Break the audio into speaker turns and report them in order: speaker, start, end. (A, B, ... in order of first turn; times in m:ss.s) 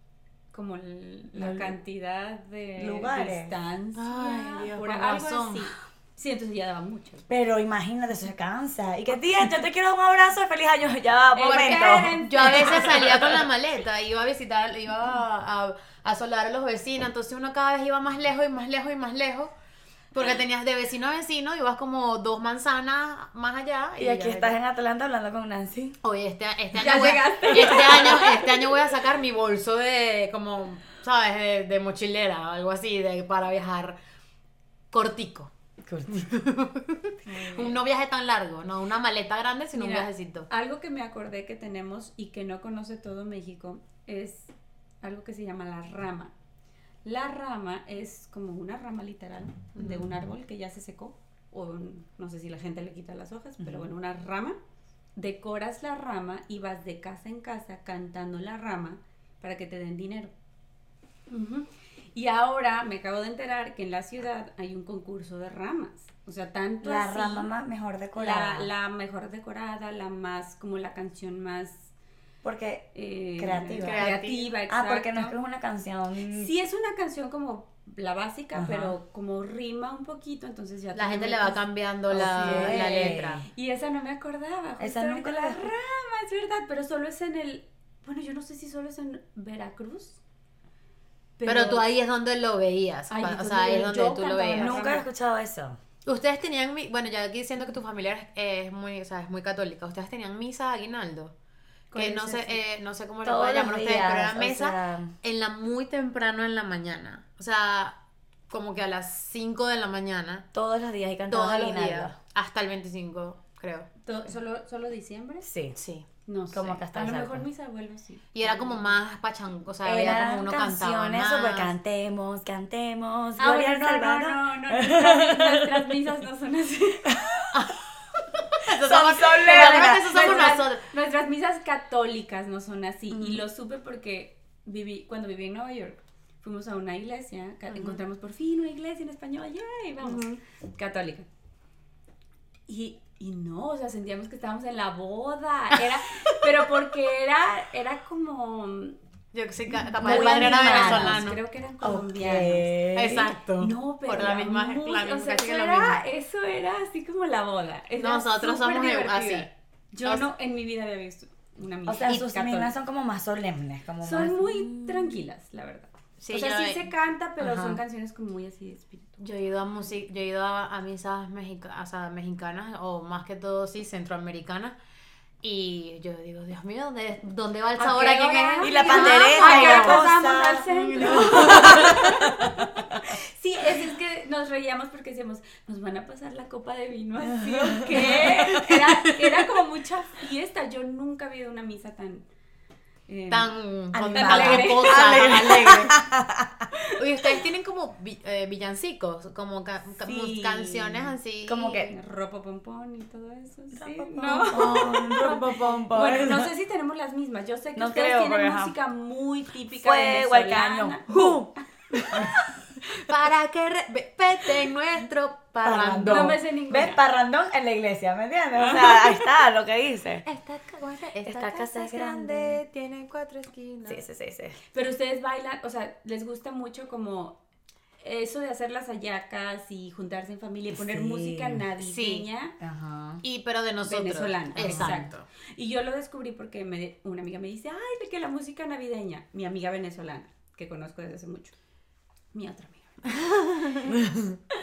0:00.5-0:07.3 A
0:01.3-0:01.7 B
0:02.8-0:03.5 B
0:03.9-0:05.7 C
0:07.3-0:13.4 B
0:11.3-0:13.2 A
0:11.4-0:19.5 C
0:20.1-0:24.6 C
0:24.0-0:26.0 B
0:26.0-0:34.0 C
0:26.7-0:28.8 A
0:34.9-0:35.5 C
0:35.8-0:36.3 B
0:36.1-0:40.5 C
0:37.2-0:37.8 A
0:39.7-0:46.3 A
0:47.0-0:54.6 A
0:49.8-0:50.0 C
0:53.6-0:53.9 B
0:55.2-1:00.3 A
1:01.3-1:07.5 A
1:06.8-1:08.7 B
1:08.1-1:11.9 A
1:12.4-1:14.1 B
1:12.9-1:15.3 A
1:13.8-1:14.5 C
1:14.7-1:16.5 B
1:16.3-1:21.6 A
1:18.5-1:19.0 B
1:20.9-1:23.4 C
1:22.1-1:23.5 B
1:22.2-1:30.2 A
1:24.8-1:25.7 B
1:31.4-1:31.9 A
1:31.4-1:34.8 C
1:33.1-1:35.0 A
1:34.6-1:35.8 B
1:36.0-1:41.3 C
1:41.9-1:42.6 A
1:41.9-1:48.0 C
1:43.2-1:45.1 B
1:48.5-1:50.5 C
1:50.5-1:52.1 B
1:51.3-1:53.9 C
1:54.0-1:55.5 A
1:55.4-1:55.8 B
1:55.8-1:56.1 C
1:56.2-1:58.9 A
1:56.5-1:57.4 B
1:58.3-2:01.7 C
1:59.8-2:05.9 B
2:03.4-2:07.2 A
2:07.1-2:07.5 B
2:07.5-2:07.8 C
2:08.6-2:10.8 C
2:08.7-2:10.5 B
2:09.4-2:21.3 A
2:17.7-2:18.0 C
2:20.0-2:20.4 C
2:22.7-2:29.0 A
2:29.3-2:31.4 C
2:29.9-2:32.7 A
2:30.0-2:31.3 B
2:31.8-2:33.3 B
2:32.9-2:36.0 C
2:33.6-2:42.7 A
2:38.0-2:39.5 C
2:41.8-2:45.1 B
2:44.0-2:49.2 A
2:46.2-2:46.9 C
2:47.4-2:47.8 B
2:49.2-2:54.8 C
2:55.4-3:00.1 C
2:57.8-3:12.2 A
2:58.6-3:03.0 B
3:00.7-3:02.1 C
3:07.5-3:09.2 B
3:13.1-3:15.7 A
3:13.3-3:16.0 C
3:13.9-3:16.7 B
3:17.0-3:21.9 C
3:20.0-3:21.9 B
3:21.9-3:31.5 A
3:23.7-3:26.5 B
3:27.8-3:28.7 B
3:29.8-3:32.4 B
3:33.0-3:36.4 C
3:35.6-3:40.2 B
3:36.0-3:37.0 A
3:38.6-3:39.2 A
3:40.2-3:44.0 C
3:41.2-3:42.6 B
3:43.8-3:44.6 B
3:44.7-3:47.4 A
3:48.0-3:52.6 A
3:50.7-3:51.6 B
3:51.8-3:52.3 C
3:52.6-3:53.2 B
3:53.2-3:55.3 C
3:53.8-4:01.5 A
3:54.6-3:55.1 B
4:02.3-4:03.9 A